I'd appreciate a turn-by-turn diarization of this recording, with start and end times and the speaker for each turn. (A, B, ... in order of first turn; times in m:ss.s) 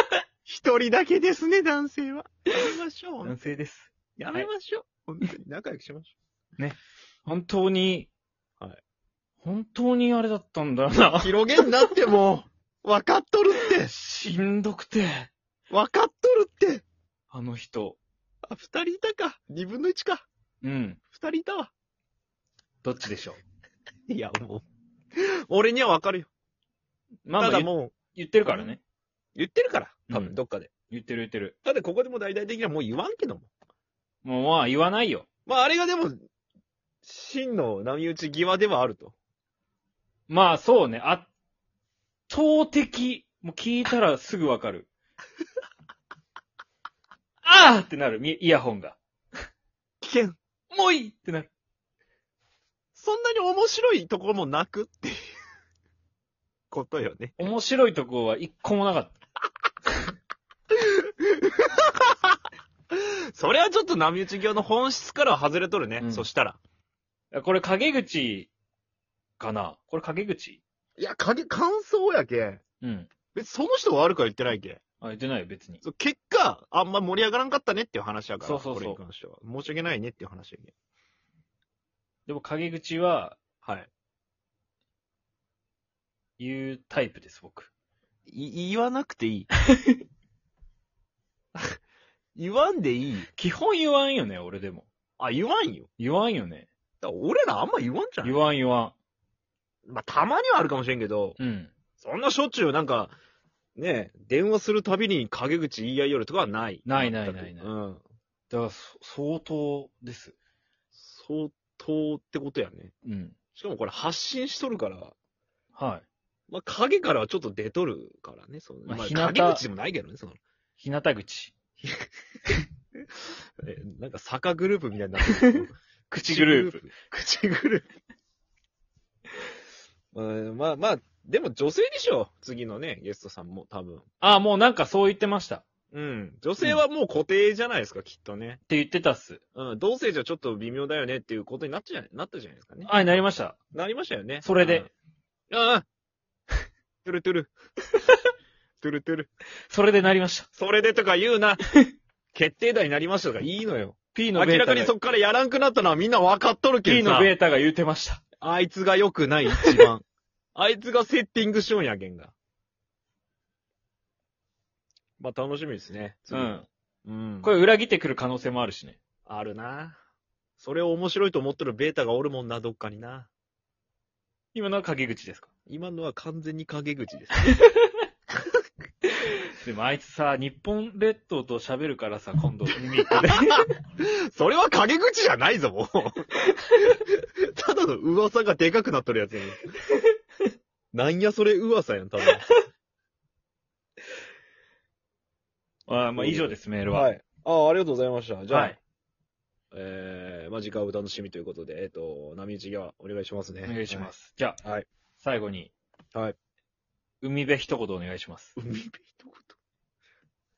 0:00.4-0:03.4 A
0:03.2-0:04.5 B
0:04.2-0:06.1 A
0:06.6-0:08.1 B
0:09.4-0:11.9 B
0:11.2-0:13.9 A
0:13.8-0:15.3 B
0:15.7-0:16.8 A
0:17.3-0:18.0 B
0:18.4-0:20.2 A
0:20.6-0:21.0 B
0:21.1-0:21.7 A
0:22.8-0:23.4 B
0:24.1-0:24.6 A
0:25.2-0:26.3 A
0:27.2-0:28.8 B
0:27.4-0:27.9 A
0:28.4-0:28.7 A
0:29.4-0:30.7 A
0:30.1-0:30.4 B
0:30.9-0:31.5 B
0:31.6-0:33.5 A
0:34.2-0:35.2 B
0:35.5-0:36.2 A
0:37.0-0:39.1 A
0:40.3-0:41.3 B
0:42.3-0:44.9 B
0:47.4-0:49.0 B
0:50.0-0:50.4 A
0:50.7-0:51.5 B
0:52.9-0:55.2 A
0:56.7-0:57.4 A
0:57.4-0:59.1 B
1:00.7-1:02.3 A
1:02.9-1:06.6 A
1:06.0-1:06.3 B
1:07.3-1:08.5 B
1:09.4-1:10.6 B
1:11.0-1:12.6 A
1:12.8-1:13.1 B
1:13.3-1:14.8 A
1:15.0-1:15.8 B
1:15.8-1:20.7 A
1:18.4-1:19.0 B
1:22.3-1:23.4 B
1:23.6-1:23.9 A
1:26.4-1:27.7 B
1:28.3-1:29.5 A
1:32.3-1:33.3 A
1:33.3-1:34.9 B
1:35.2-1:35.9 A
1:36.0-1:36.7 B
1:37.0-1:38.4 A
1:38.2-1:38.9 B
1:39.9-1:41.4 A
1:41.4-1:41.7 B
1:42.0-1:43.1 A
1:43.8-1:48.0 A
1:46.8-1:47.7 B
1:48.5-1:50.3 B
1:50.9-1:52.9 A
1:53.0-1:53.3 B
1:53.6-1:55.1 A
1:55.8-1:56.0 B
1:56.5-2:00.4 A
1:58.8-1:59.6 B
2:00.8-2:01.6 B
2:03.6-2:07.9 A
2:05.2-2:06.8 B
2:10.1-2:14.1 A
2:14.2-2:15.6 B
2:15.9-2:18.6 A
2:18.7-2:19.4 B
2:19.6-2:22.9 A
2:22.8-2:23.6 B
2:23.7-2:24.9 A
2:24.4-2:24.9 B
2:25.5-2:25.8 A
2:27.0-2:27.5 A
2:28.8-2:29.3 A
2:29.7-2:30.5 B
2:30.6-2:31.7 A
2:32.3-2:37.3 A
2:34.1-2:34.9 B
2:36.8-2:38.2 B
2:38.4-2:42.3 A
2:45.2-2:47.5 A
2:46.3-2:46.7 B
2:47.4-2:49.0 B
2:49.2-2:50.0 A
2:50.6-2:53.3 A
2:54.5-2:55.5 B
2:55.7-2:57.6 A
2:57.6-2:57.9 B
2:59.5-3:03.7 B
3:03.1-3:09.7 A
3:10.9-3:12.4 A
3:15.9-3:17.1 B
3:16.1-3:18.8 A
3:18.5-3:18.8 B
3:19.7-3:24.1 A
3:23.6-3:24.6 B
3:25.2-3:25.7 B
3:27.2-3:28.6 B
3:28.6-3:29.6 A